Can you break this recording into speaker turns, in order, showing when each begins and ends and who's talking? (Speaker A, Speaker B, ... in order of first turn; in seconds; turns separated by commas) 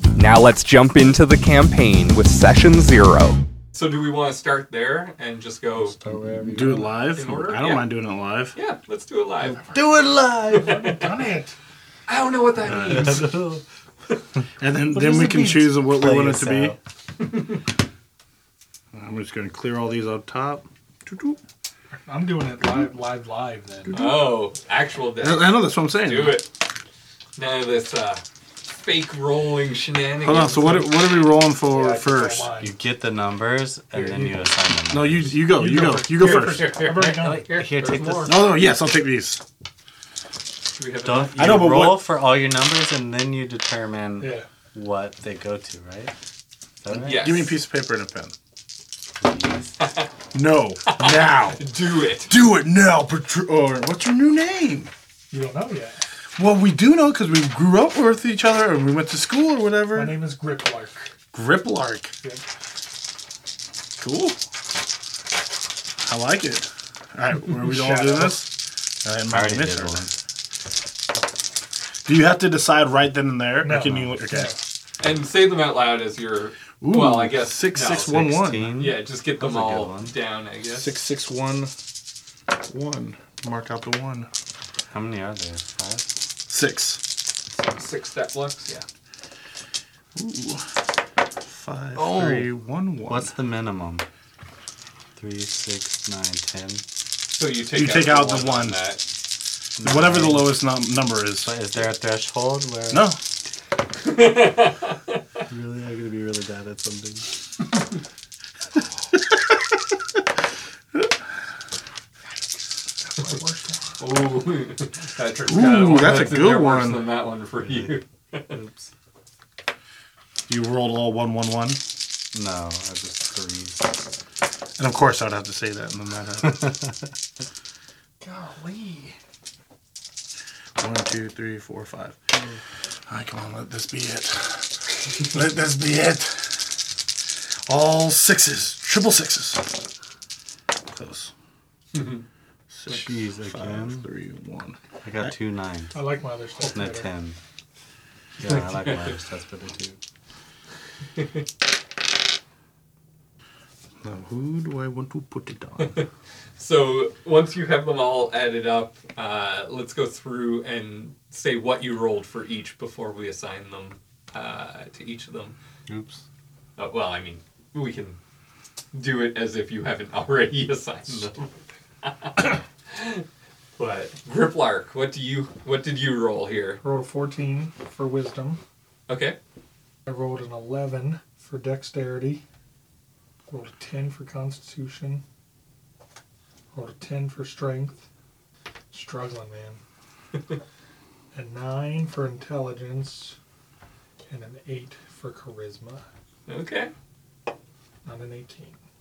Speaker A: 0.1-6.0, Speaker B: 5.8-7.0, Speaker C: 6.4-8.6, Speaker A: 7.1-7.9, Speaker A: 8.5-9.6, Speaker B: 9.7-10.8, Speaker A: 10.5-11.0, Speaker D: 10.5-11.6, Speaker A: 12.1-13.4, Speaker B: 12.6-13.6, Speaker C: 14.6-16.8, Speaker B: 14.9-16.8, Speaker A: 17.2-17.6, Speaker C: 18.9-21.4, Speaker D: 22.1-24.0, Speaker C: 23.8-24.3, Speaker A: 23.9-26.5, Speaker C: 25.2-26.4, Speaker A: 27.4-30.9, Speaker C: 30.2-32.5, Speaker D: 31.7-32.7, Speaker B: 32.6-35.4, Speaker D: 33.9-34.4, Speaker C: 34.9-36.8, Speaker D: 35.5-37.5, Speaker A: 36.2-38.3, Speaker B: 36.8-38.5, Speaker C: 38.3-39.4, Speaker A: 40.8-41.7, Speaker B: 41.0-46.1, Speaker C: 41.4-42.1, Speaker D: 44.2-44.5, Speaker B: 46.8-47.5, Speaker A: 46.9-47.5, Speaker C: 47.1-48.3, Speaker B: 49.2-49.9, Speaker A: 49.8-50.1, Speaker C: 50.3-51.6, Speaker A: 50.9-52.3, Speaker C: 52.3-54.9, Speaker D: 55.3-56.0, Speaker C: 56.4-60.2, Speaker D: 59.9-61.1, Speaker C: 61.3-62.1, Speaker C: 64.0-64.4, Speaker C: 66.0-70.0, Speaker D: 67.6-68.5, Speaker B: 69.3-70.2, Speaker C: 72.1-74.6, Speaker D: 73.6-74.6, Speaker A: 75.0-78.2, Speaker C: 76.8-78.7, Speaker B: 77.9-80.2, Speaker A: 78.8-80.9, Speaker C: 80.7-81.7, Speaker C: 82.7-84.3, Speaker B: 84.9-86.2, Speaker C: 86.5-87.0, Speaker A: 87.6-88.9, Speaker C: 90.2-90.7, Speaker C: 91.5-93.3, Speaker B: 92.0-92.5, Speaker B: 93.1-94.0, Speaker B: 95.2-96.8, Speaker A: 97.3-99.0, Speaker C: 97.7-98.8, Speaker B: 99.8-100.6, Speaker C: 99.8-101.5, Speaker B: 101.4-103.1, Speaker C: 102.9-103.2, Speaker A: 104.0-105.2, Speaker B: 105.5-107.3, Speaker D: 113.1-114.0, Speaker A: 114.0-118.6, Speaker C: 115.5-117.1, Speaker B: 117.7-117.9, Speaker C: 120.5-121.8, Speaker B: 122.3-124.1, Speaker C: 124.8-126.7, Speaker B: 126.4-127.1, Speaker D: 128.2-129.1, Speaker C: 130.8-132.2, Speaker B: 132.3-132.6, Speaker C: 133.1-136.7, Speaker C: 137.7-139.8, Speaker C: 140.9-141.3, Speaker A: 141.9-142.3, Speaker C: 142.7-145.3, Speaker B: 142.9-144.1, Speaker B: 145.0-146.0, Speaker D: 145.9-147.1, Speaker B: 146.6-147.4, Speaker B: 148.4-150.0, Speaker A: 148.5-149.1, Speaker A: 151.2-151.4, Speaker C: 154.0-156.0, Speaker A: 155.8-165.6, Speaker B: 165.9-166.2, Speaker A: 166.8-168.2, Speaker A: 168.9-171.5, Speaker B: 171.1-171.3, Speaker A: 172.0-173.2, Speaker A: 173.8-176.8, Speaker D: 176.8-178.6, Speaker A: 179.1-179.4, Speaker D: 180.1-182.4, Speaker D: 183.5-185.2, Speaker D: 186.7-188.1, Speaker D: 188.9-189.8, Speaker D: 191.3-193.4, Speaker D: 194.3-196.1, Speaker A: 196.5-196.9, Speaker D: 198.1-198.8